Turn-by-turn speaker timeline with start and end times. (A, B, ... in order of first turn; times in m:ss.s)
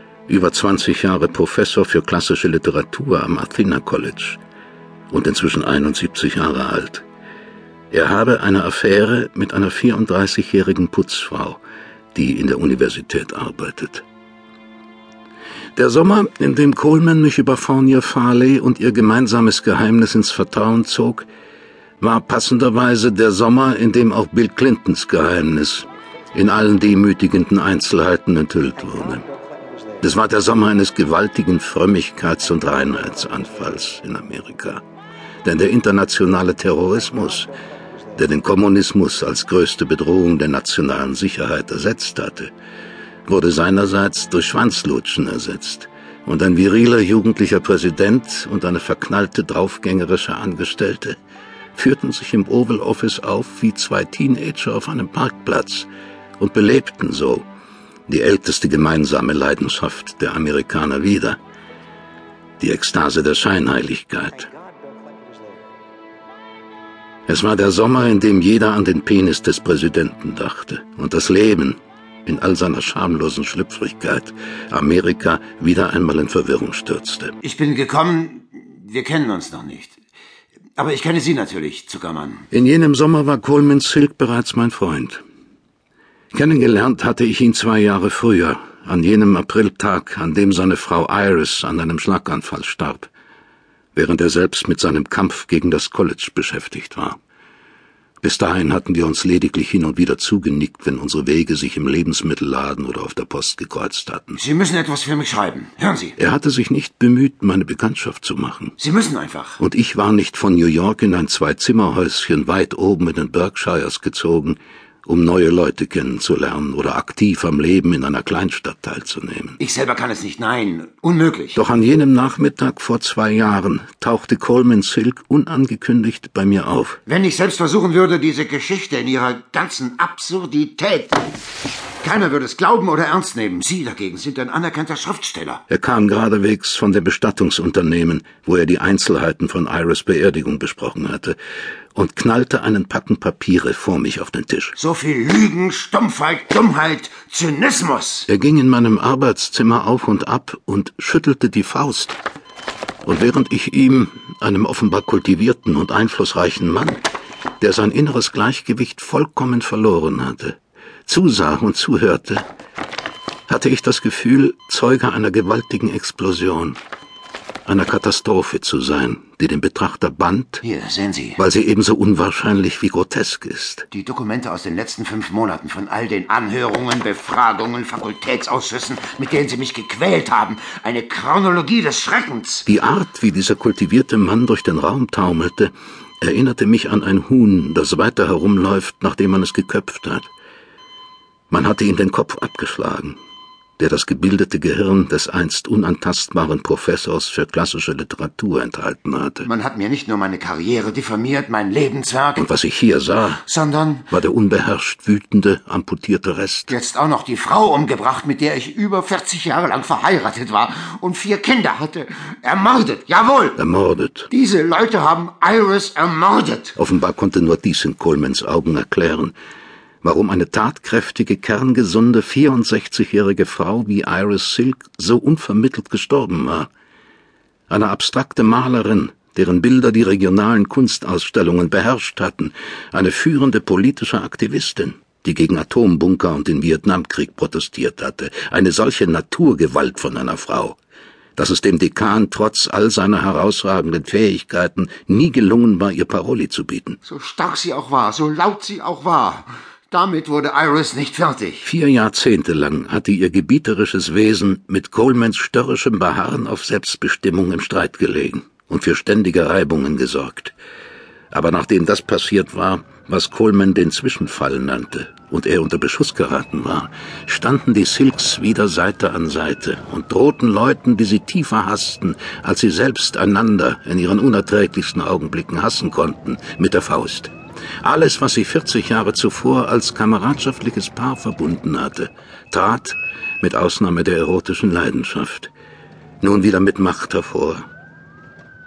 0:00.3-0:04.4 A
0:05.1-0:07.0 A
0:07.9-0:11.6 A
0:12.1-0:14.0 A
0:15.8-0:21.3 A
0:22.0-0:29.3 A
0:30.0-0:34.8 A
0:35.4-0:37.5 A
0:38.1-0:42.5 A
0:43.3-0:51.2 A
0:51.7-0:55.9 A
0:56.4-0:57.5 A
0:58.1-1:01.4 A
1:02.6-1:04.5 A
1:07.3-1:17.3 A
1:17.4-1:20.0 B
1:20.8-1:22.5 B
1:22.5-1:25.2 A
1:26.3-1:33.1 A
1:33.9-1:37.2 A
1:38.2-1:44.4 A
1:44.4-1:46.2 B
1:46.2-1:48.8 A
1:48.8-1:49.6 B
1:49.6-1:59.6 A
1:59.6-2:01.6 B
2:01.6-2:07.0 A
2:07.0-2:11.4 B
2:12.0-2:15.6 B
2:15.7-2:21.4 A
2:21.9-2:24.7 A
2:24.8-2:28.3 B
2:28.3-2:32.2 A
2:33.0-2:37.0 A
2:37.6-2:42.4 A
2:43.5-2:46.8 A
2:47.6-2:50.6 A
2:50.6-2:51.4 B
2:51.4-2:53.9 A
2:53.9-3:02.6 B
3:02.6-3:10.3 A
3:11.5-3:13.2 A
3:13.8-3:19.5 A
3:19.4-3:22.5 B
3:22.4-3:23.4 A
3:23.4-3:24.1 B
3:24.1-3:26.7 A
3:26.7-3:33.6 B
3:33.6-3:34.3 A
3:34.3-3:36.8 B
3:36.8-3:39.3 A
3:40.0-3:46.7 A
3:47.7-4:00.8 A
4:01.4-4:07.0 A
4:07.0-4:11.7 B
4:11.6-4:20.5 A
4:21.3-4:45.5 A
4:46.2-4:47.7 A